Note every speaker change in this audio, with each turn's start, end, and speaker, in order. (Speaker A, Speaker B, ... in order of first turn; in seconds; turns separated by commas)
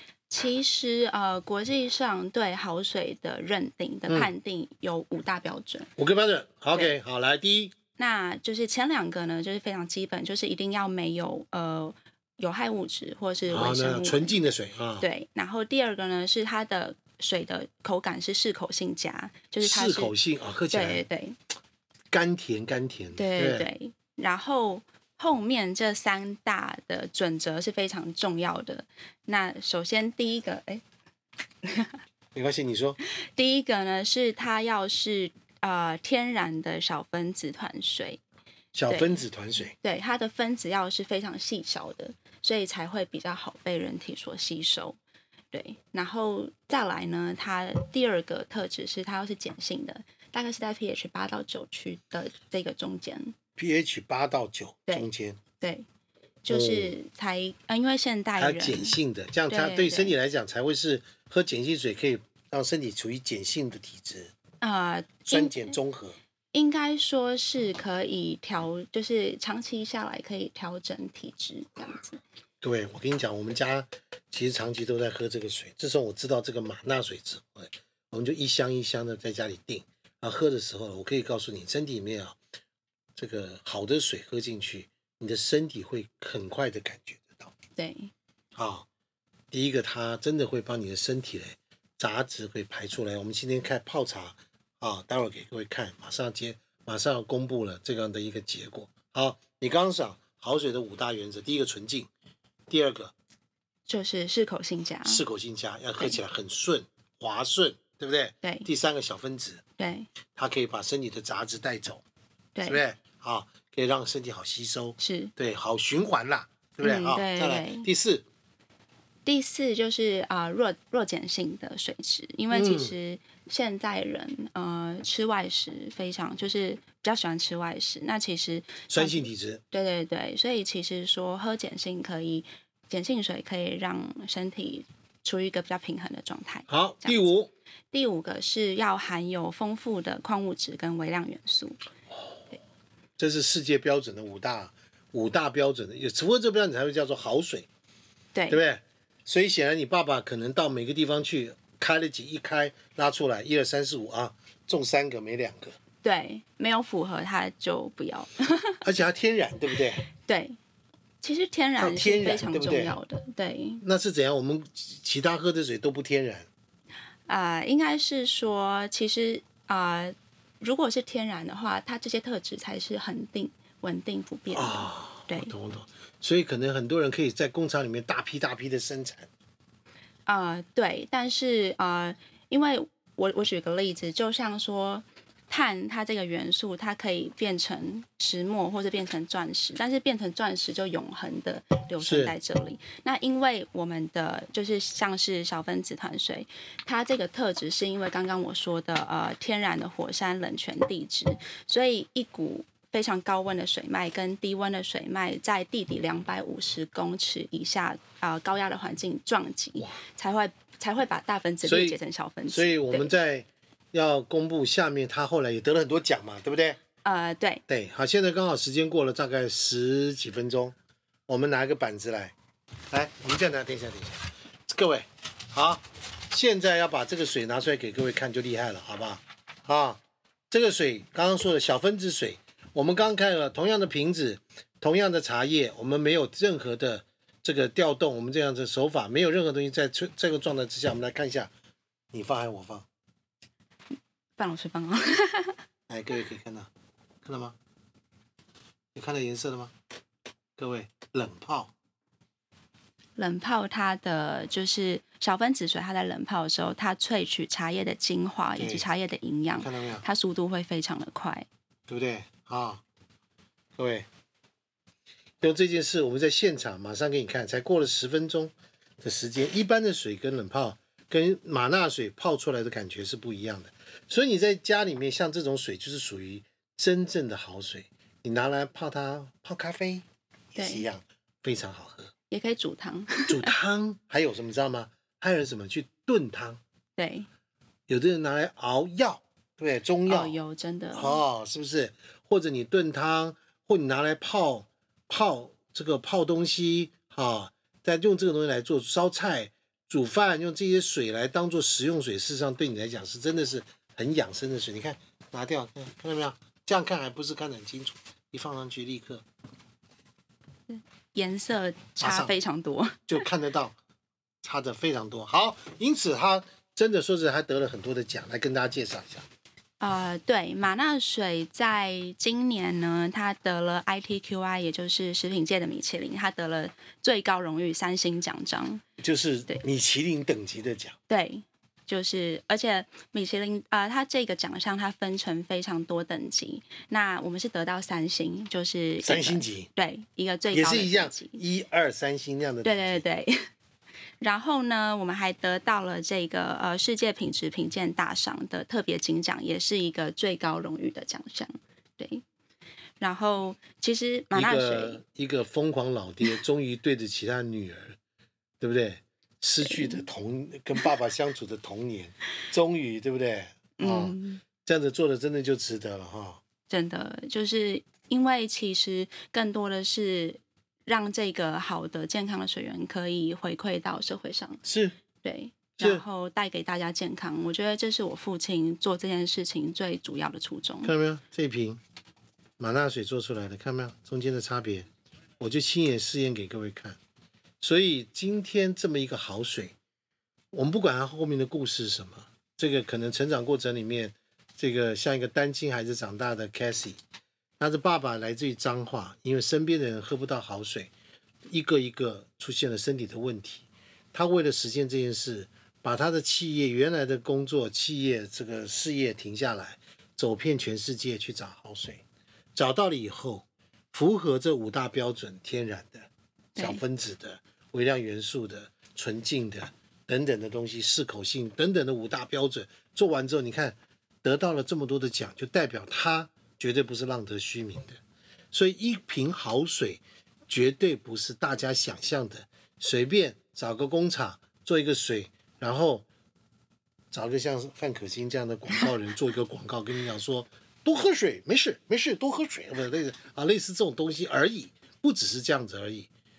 Speaker A: 0.3-5.9, Speaker B: 6.0-7.8, Speaker A: 8.0-14.3, Speaker B: 13.5-15.1, Speaker A: 15.0-20.1, Speaker B: 19.6-21.0, Speaker A: 20.7-21.4, Speaker B: 22.1-23.7, Speaker A: 23.1-30.8, Speaker A: 31.6-32.0, Speaker B: 32.3-33.0, Speaker A: 33.0-38.2, Speaker B: 38.7-39.7, Speaker A: 38.9-39.2, Speaker A: 39.8-45.0, Speaker A: 45.5-53.3, Speaker B: 53.6-55.4, Speaker A: 54.9-55.9, Speaker A: 56.4-59.0, Speaker B: 56.5-56.9, Speaker B: 58.4-64.3, Speaker A: 59.5-60.1, Speaker A: 64.6-65.8, Speaker B: 65.3-66.2, Speaker A: 66.5-72.2, Speaker B: 72.6-82.4, Speaker B: 83.2-87.5, Speaker A: 87.8-88.1, Speaker B: 88.5-88.9, Speaker B: 89.5-102.1, Speaker B: 102.7-103.1, Speaker A: 103.9-105.2, Speaker B: 105.0-109.6, Speaker A: 108.4-108.7, Speaker A: 109.8-110.1, Speaker B: 110.4-112.0, Speaker A: 112.5-112.8, Speaker B: 112.6-118.2, Speaker A: 115.0-115.3, Speaker A: 116.8-117.9, Speaker A: 119.2-137.3, Speaker B: 122.5-122.9, Speaker B: 128.9-129.6, Speaker B: 136.7-137.5, Speaker A: 137.9-141.8, Speaker B: 143.2-147.7, Speaker A: 148.3-148.6, Speaker B: 148.5-155.8, Speaker A: 156.0-158.8, Speaker B: 158.8-160.0, Speaker A: 160.2-160.6, Speaker A: 161.2-163.8, Speaker B: 161.8-163.0, Speaker B: 163.8-166.5, Speaker A: 167.3-175.5, Speaker B: 174.5-179.3, Speaker A: 180.2-213.1, Speaker B: 192.0-192.3, Speaker B: 211.6-212.0, Speaker B: 212.5-216.8, Speaker A: 217.0-217.6, Speaker B: 217.7-220.8, Speaker B: 221.3-222.3, Speaker B: 222.9-230.0, Speaker B: 230.5-241.5, Speaker B: 242.1-242.9, Speaker A: 244.4-245.6, Speaker B: 245.9-246.7, Speaker B: 247.2-247.6, Speaker B: 248.9-249.7, Speaker B: 250.6-251.7, Speaker A: 253.2-261.5, Speaker B: 258.6-258.9, Speaker B: 259.5-260.0, Speaker B: 261.9-262.8, Speaker B: 263.8-264.1, Speaker B: 265.4-282.1, Speaker A: 280.5-280.9, Speaker A: 282.3-283.5, Speaker B: 283.3-286.6, Speaker A: 287.0-287.3, Speaker B: 287.9-290.4, Speaker A: 290.1-291.2, Speaker B: 290.9-309.2, Speaker A: 310.7-313.1, Speaker B: 312.0-312.3, Speaker B: 313.1-313.7, Speaker B: 314.4-319.2, Speaker A: 319.8-328.8, Speaker B: 329.0-331.0, Speaker A: 331.1-341.4, Speaker B: 339.0-339.7, Speaker B: 340.5-343.0, Speaker A: 342.6-343.4, Speaker A: 344.2-352.2, Speaker A: 353.0-355.0, Speaker B: 354.3-357.9, Speaker B: 358.6-366.4, Speaker A: 359.6-360.1, Speaker A: 363.8-364.4, Speaker A: 366.7-374.6, Speaker B: 374.6-374.9, Speaker A: 375.2-380.9, Speaker B: 380.8-381.8, Speaker B: 382.6-384.9, Speaker B: 385.4-387.0, Speaker B: 387.6-389.7, Speaker B: 390.5-397.0, Speaker B: 397.6-400.9, Speaker B: 401.5-412.0, Speaker B: 412.6-428.0, Speaker A: 416.6-416.8, Speaker B: 428.5-436.1, Speaker B: 437.1-446.1